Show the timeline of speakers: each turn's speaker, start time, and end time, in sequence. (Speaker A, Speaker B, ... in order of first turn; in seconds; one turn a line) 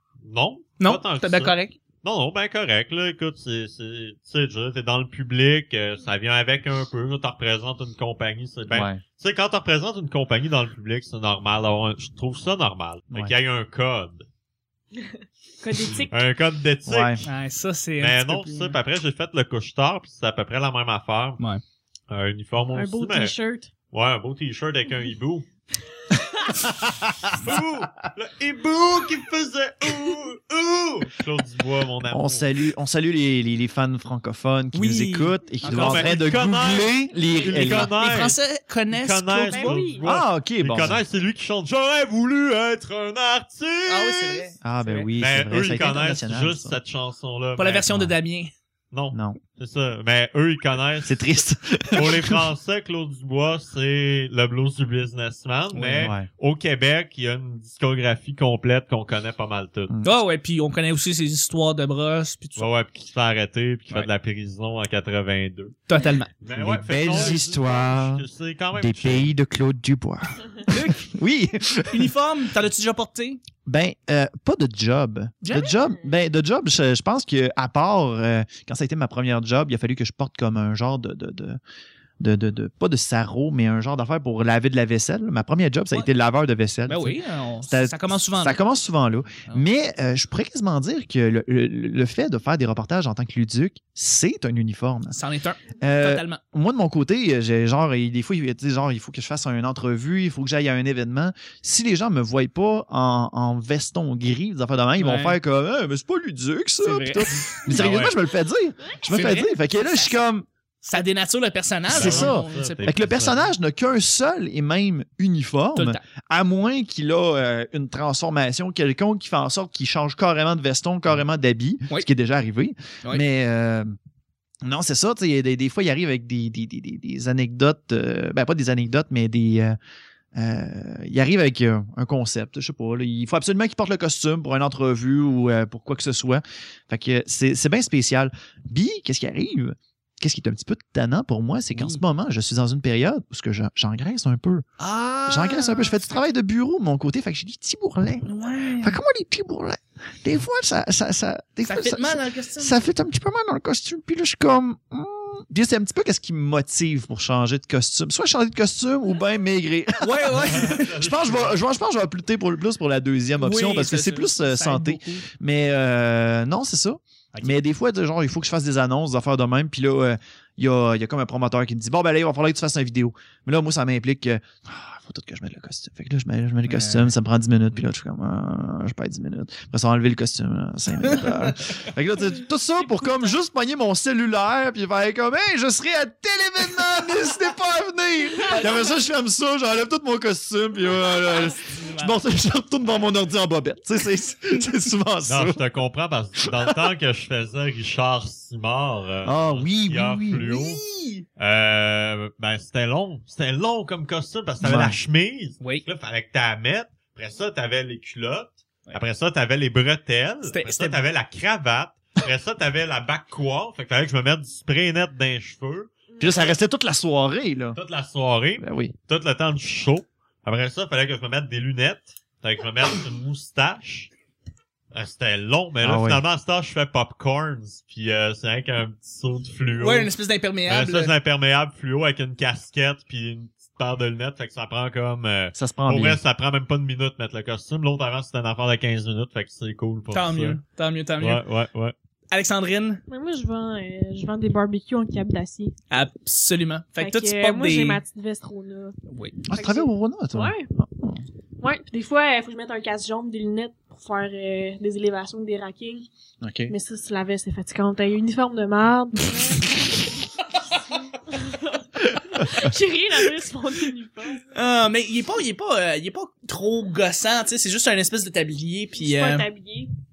Speaker A: 0.2-14.3
Speaker B: 0.8-1.8
Speaker C: 8.7-9.0
Speaker D: 15.6-16.2
Speaker A: 15.9-17.3
Speaker C: 16.9-17.2
Speaker B: 17.3-18.8
Speaker A: 18.0-21.4
Speaker A: 22.1-23.4
Speaker D: 22.7-23.7
Speaker A: 23.9-25.5
Speaker A: 26.5-32.5
Speaker C: 27.1-27.6
Speaker C: 32.1-37.9
Speaker B: 34.7-36.3
Speaker A: 35.6-38.4
Speaker B: 37.5-39.8
Speaker A: 38.9-44.5
Speaker D: 39.5-40.0
Speaker C: 40.0-41.0
Speaker B: 43.9-45.1
Speaker C: 44.6-46.8
Speaker A: 45.2-47.9
Speaker B: 47.6-48.5
Speaker A: 48.9-51.2
Speaker C: 49.1-49.4
Speaker C: 51.0-52.4
Speaker A: 51.9-59.9
Speaker B: 55.7-56.1
Speaker C: 56.0-56.3
Speaker B: 60.0-62.7
Speaker A: 62.6-65.9
Speaker B: 65.9-66.3
Speaker A: 66.4-69.3
Speaker C: 66.5-68.2
Speaker C: 68.8-72.1
Speaker B: 70.7-71.2
Speaker B: 71.9-73.4
Speaker C: 73.7-81.6
Speaker B: 75.4-75.7
Speaker C: 82.2-95.2
Speaker B: 86.9-88.6
Speaker B: 95.1-96.4
Speaker C: 95.8-110.5
Speaker B: 105.0-105.4
Speaker B: 106.8-107.6
Speaker A: 107.7-108.2
Speaker B: 109.1-110.2
Speaker B: 110.8-113.0
Speaker A: 111.9-113.5
Speaker C: 111.9-123.9
Speaker B: 115.8-116.0
Speaker C: 124.6-129.8
Speaker C: 130.3-144.7
Speaker B: 141.8-142.0
Speaker B: 144.8-146.2
Speaker C: 145.3-148.3
Speaker B: 148.2-149.0
Speaker C: 148.8-195.6
Speaker B: 151.7-152.8
Speaker B: 160.0-160.9
Speaker A: 160.4-161.6
Speaker B: 163.4-165.3
Speaker B: 167.3-167.6
Speaker B: 176.7-177.1
Speaker B: 181.1-181.9
Speaker B: 188.4-188.9
Speaker B: 191.1-192.2
Speaker A: 195.3-200.8
Speaker C: 196.4-196.8
Speaker C: 199.2-200.5
Speaker B: 200.4-201.2
Speaker A: 201.4-215.9
Speaker C: 204.6-205.0
Speaker B: 210.5-211.0
Speaker D: 216.1-216.5
Speaker C: 216.2-217.8
Speaker A: 217.8-224.1
Speaker C: 218.6-218.9
Speaker A: 224.9-230.1
Speaker C: 225.8-226.2
Speaker B: 229.8-231.1
Speaker A: 230.7-240.6
Speaker C: 235.6-236.2
Speaker B: 240.1-241.4
Speaker A: 241.2-241.9
Speaker B: 242.3-243.0
Speaker D: 243.1-245.7
Speaker B: 245.9-248.0
Speaker D: 247.0-248.9
Speaker B: 249.1-249.4
Speaker C: 249.5-251.2
Speaker D: 249.5-250.7
Speaker D: 251.6-256.1
Speaker C: 256.4-256.7
Speaker D: 256.7-260.2
Speaker D: 260.8-264.5
Speaker B: 264.5-269.5
Speaker D: 269.0-269.9